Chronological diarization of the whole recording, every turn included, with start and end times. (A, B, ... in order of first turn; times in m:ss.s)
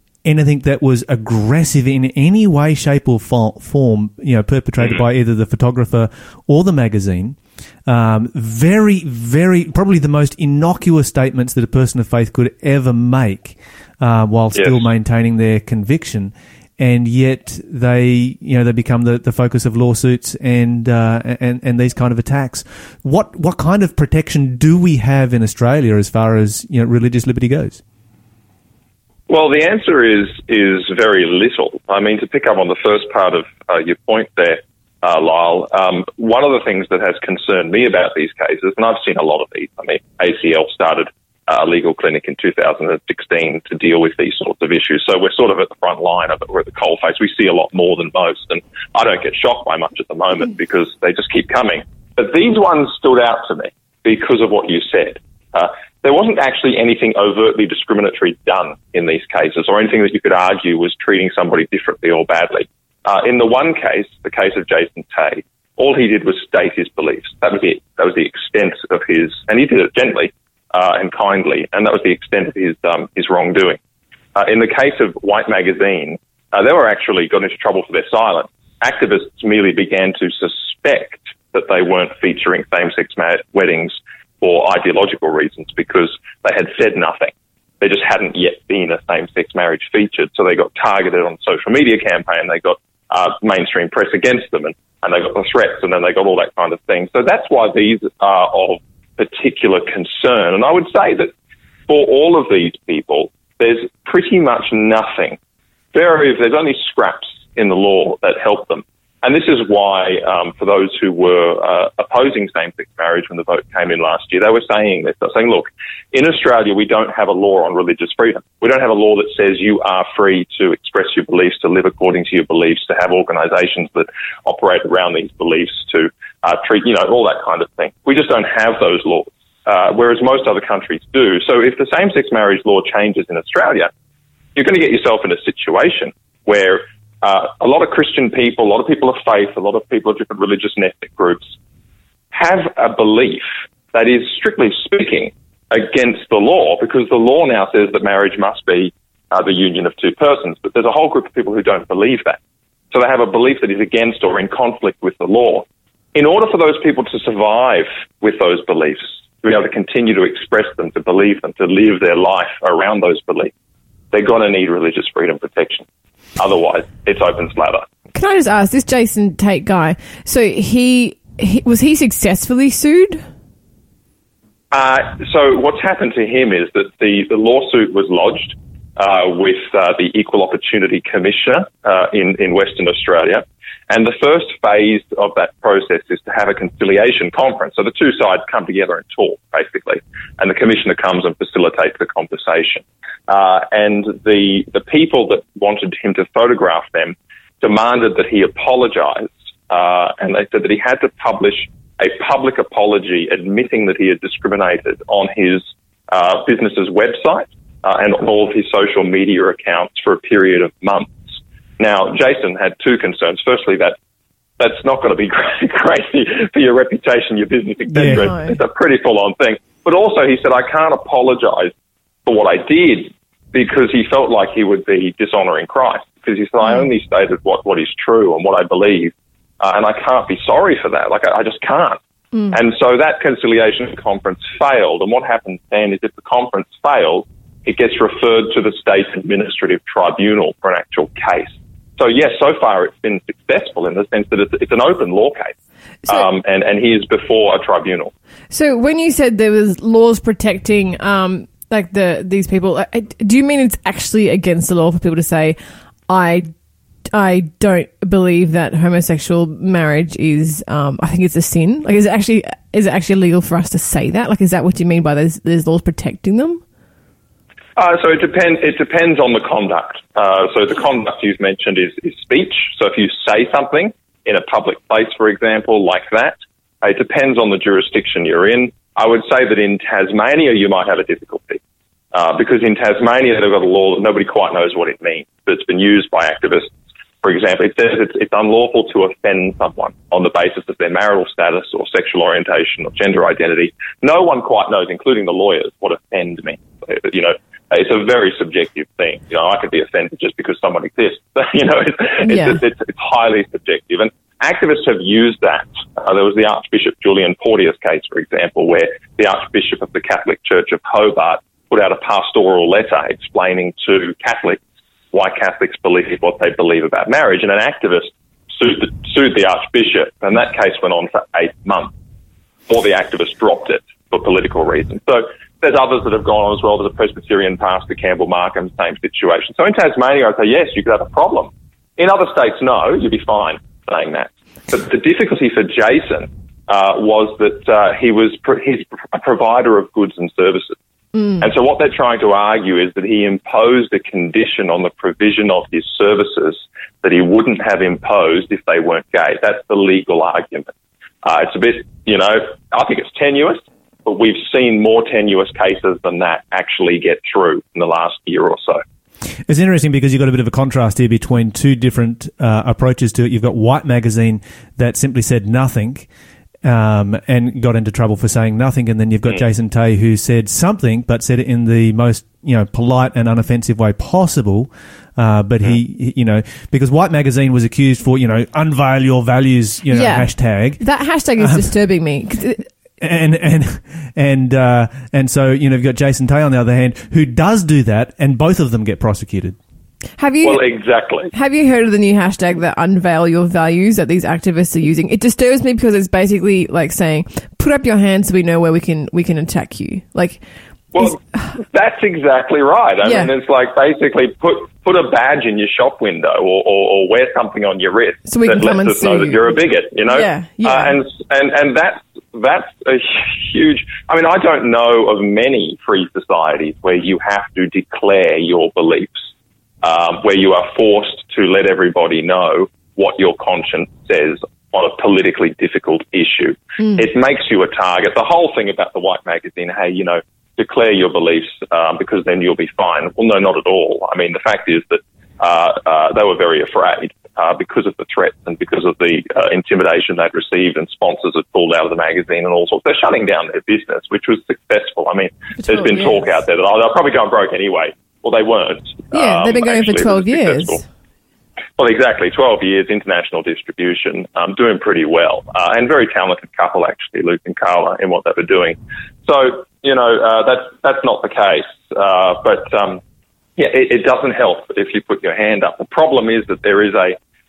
0:00.2-0:27.8 A
0:29.3-1:13.8 B
1:14.4-1:41.3 B
1:41.9-1:45.4 B
1:45.9-2:13.9 B
2:14.6-2:21.4 B
2:22.3-2:32.4 B
2:32.9-2:43.5 B
2:44.1-2:45.8 B
2:46.4-2:47.8 B
2:48.1-2:53.2 C
2:54.7-3:31.2 B
3:31.8-3:34.0 B
3:34.6-3:41.7 B
3:37.9-3:38.3 A
3:38.1-3:38.6 C
3:42.3-3:52.0 B
3:46.6-3:46.9 C
3:52.5-4:05.5 B
4:06.1-4:08.1 B
4:08.5-4:15.6 C
4:16.1-4:16.5 C
4:17.1-4:26.6 C
4:27.8-4:41.6 B
4:42.1-4:46.7 B
4:47.2-5:14.6 B
5:02.2-5:02.6 C
5:15.1-5:21.9 B
5:22.7-5:40.8 B
5:41.2-5:41.5 C
5:41.4-5:50.7 B
5:51.2-5:58.8 B
5:59.5-6:06.1 A
6:06.6-6:20.8 A
6:19.9-6:22.7 C
6:21.4-6:21.7 A
6:23.0-6:29.6 A
6:30.2-6:30.7 C
6:30.4-6:31.3 B
6:31.3-6:40.4 C
6:41.0-6:59.2 B
6:41.0-6:41.5 C
6:43.0-6:43.3 C
6:48.3-6:51.0 C
6:59.8-7:30.8 B
7:06.8-7:07.0 C
7:25.6-7:26.4 C
7:29.1-7:30.8 C
7:31.8-7:43.0 B
7:43.6-7:47.2 B